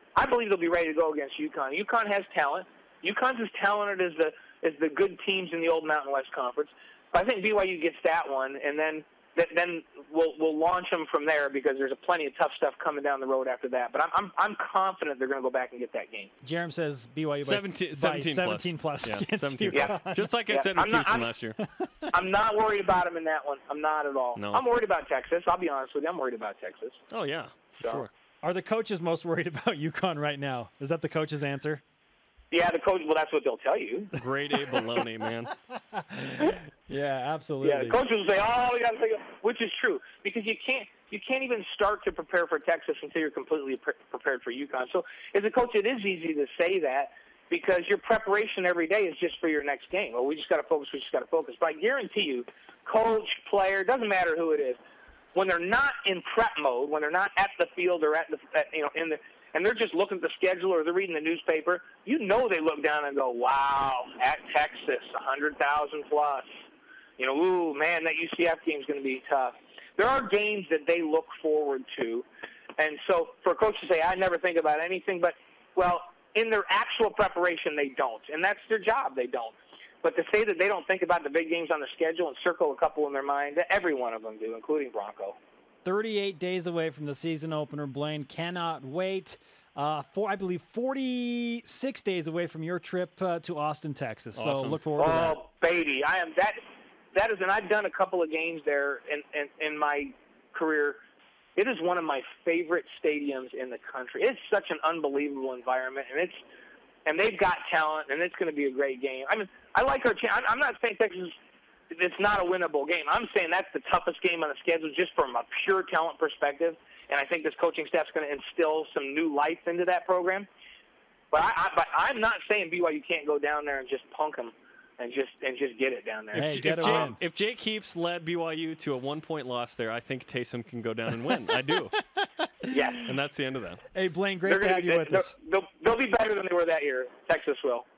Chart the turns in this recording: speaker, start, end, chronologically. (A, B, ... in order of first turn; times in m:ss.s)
0:00.2-0:16.3 A
0:16.4-0:20.3 B
0:17.4-0:21.6 C
0:19.7-0:21.3 A
0:21.6-0:21.9 B
0:22.1-0:27.0 A
0:24.4-0:24.6 C
0:27.1-0:28.1 C
0:27.8-0:28.1 A
0:28.4-0:31.8 B
0:32.5-0:34.1 A
0:34.1-0:35.6 C
0:36.0-0:38.0 B
0:37.6-0:54.8 A
0:55.3-1:06.5 A
1:07.2-1:12.3 A
1:12.8-1:25.4 A
1:25.8-1:35.4 B
1:34.4-1:34.8 C
1:35.0-1:36.6 A
1:37.1-1:41.0 A
1:41.6-1:46.4 A
1:47.1-1:51.4 A
1:51.9-2:00.5 A
2:01.3-2:07.1 A
2:06.3-2:12.0 C
2:06.4-2:07.2 B
2:12.7-2:13.1 A
2:13.0-2:13.8 C
2:13.9-2:15.3 B
2:14.5-2:17.9 A